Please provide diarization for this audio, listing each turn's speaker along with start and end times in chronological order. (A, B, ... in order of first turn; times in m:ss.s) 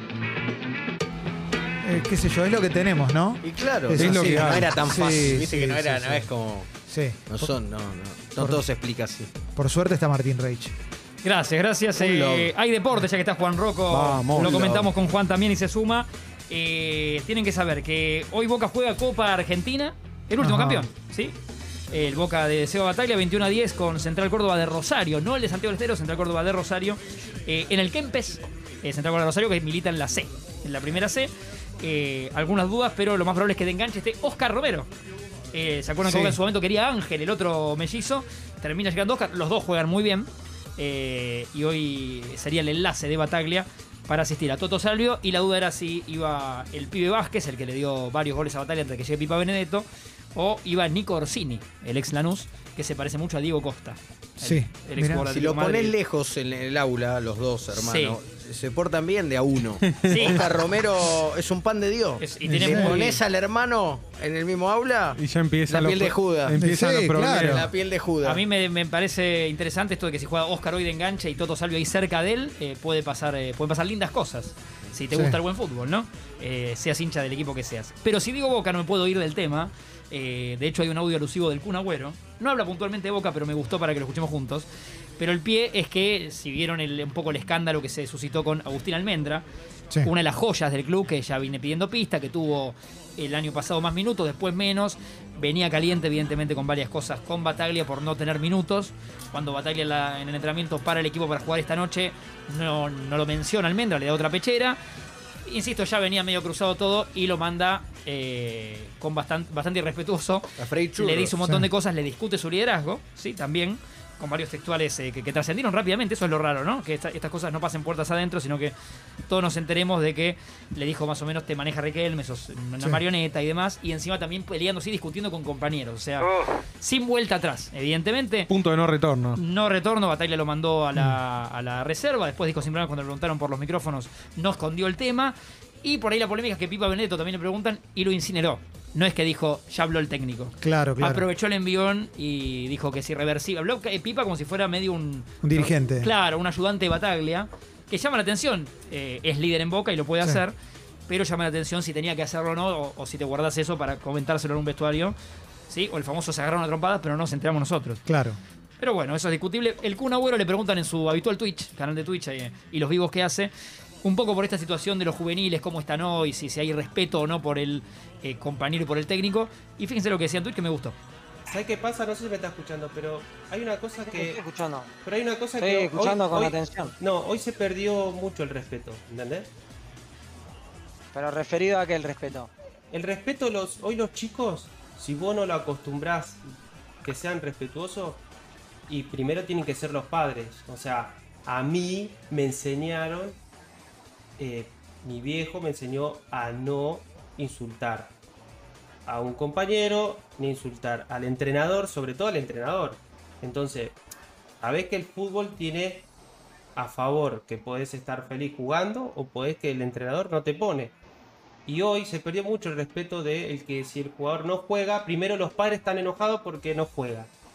0:01.8-0:06.3 A
0:03.4-0:06.7 B
0:04.0-0:04.7 C
0:06.9-0:07.5 A
0:07.3-0:09.3 B
0:09.5-0:10.7 A
0:11.2-0:21.4 D
0:12.0-0:12.5 B
0:13.9-0:14.9 C
0:14.4-0:14.8 B
0:20.4-0:20.9 A
0:21.9-0:34.9 D
0:35.5-0:55.9 D
0:36.0-0:36.4 A
0:54.4-0:55.3 A
0:55.3-1:06.6 B
0:57.7-0:58.2 D
0:59.8-1:00.3 C
1:00.0-1:00.5 D
1:02.2-1:03.2 D
1:02.4-1:03.0 A
1:05.2-1:07.7 C
1:06.6-1:07.7 A
1:07.2-1:08.4 B
1:08.2-1:24.7 D
1:15.1-1:15.4 A
1:25.2-1:29.4 D
1:30.0-1:44.8 D
1:45.4-1:58.7 D
1:50.6-1:51.4 B
1:59.2-2:08.5 D
2:08.5-2:09.4 C
2:09.4-2:30.5 D
2:20.6-2:21.2 A
2:25.4-2:26.1 A
2:31.1-2:35.2 D
2:35.7-2:38.0 D
2:38.1-2:38.4 A
2:38.8-2:43.5 D
2:44.0-2:51.0 D
2:51.5-2:54.4 E
2:54.1-2:54.9 F
2:55.0-2:59.5 E
2:55.6-2:56.9 F
3:01.1-3:02.5 F
3:02.9-3:06.4 E
3:07.0-3:08.2 E
3:08.9-3:13.4 E
3:14.4-3:18.1 E
3:19.1-3:24.0 E
3:24.6-3:26.1 E
3:26.8-3:30.9 E
3:31.7-3:37.3 E